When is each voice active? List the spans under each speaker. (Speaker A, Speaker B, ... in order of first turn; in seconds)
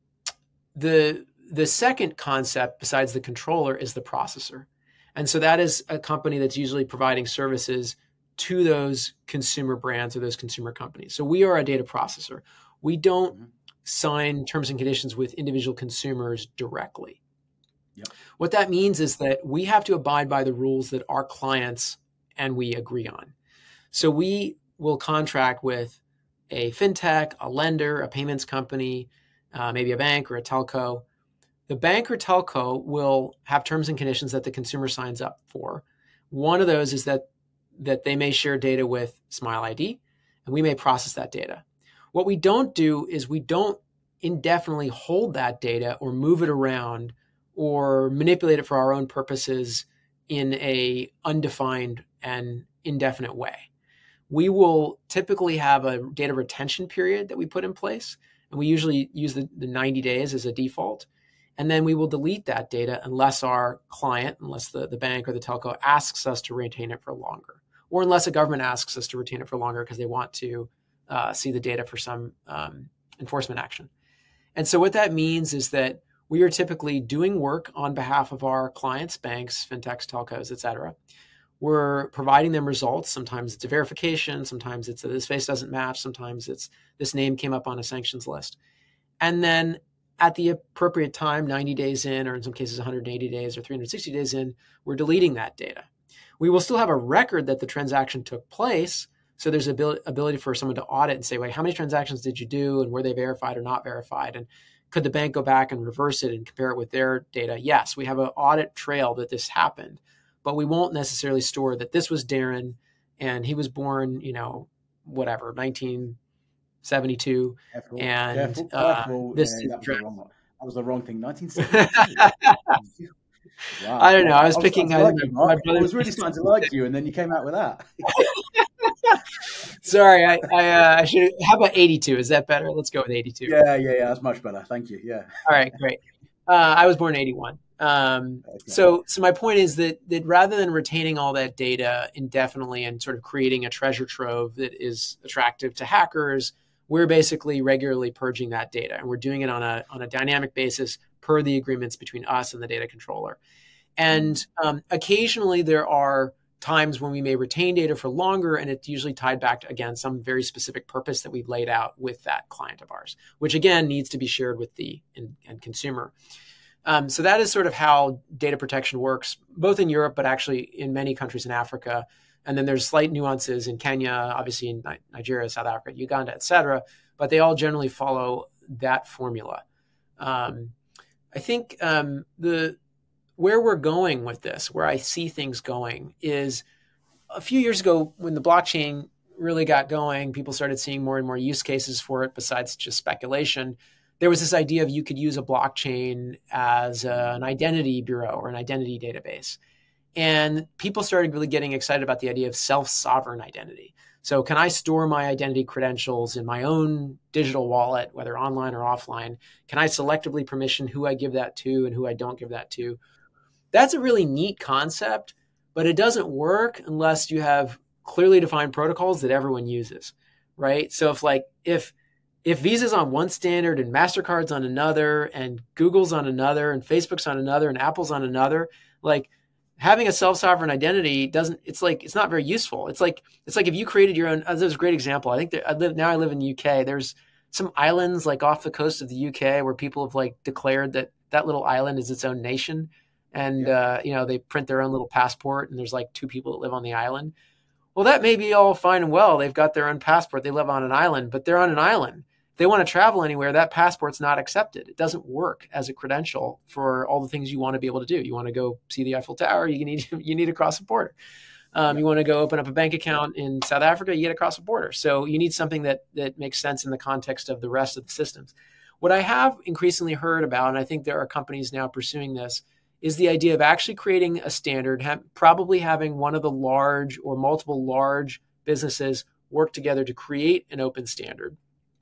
Speaker A: 0.7-17.2, 18.4-23.3, 23.9-26.0, 26.5-31.0, 31.7-53.7, 54.3-61.1, 61.6-73.9, 74.5-80.9, 81.6-88.6, 89.2-95.9, 96.4-116.2, 116.8-120.0, 121.6-122.7, 124.0-126.2, 128.1-133.5, 135.4-153.4, 154.0-166.1, 166.8-179.6, 180.2-180.7, 181.3-182.8, 183.4-186.6, 187.3-199.6, 200.2-213.0, 213.7-221.9, 222.4-247.3, 247.9-261.1, 261.7-281.6
Speaker B: 117.7-123.1, 123.7-128.3, 133.4-135.4, 138.4-138.8, 154.1-154.4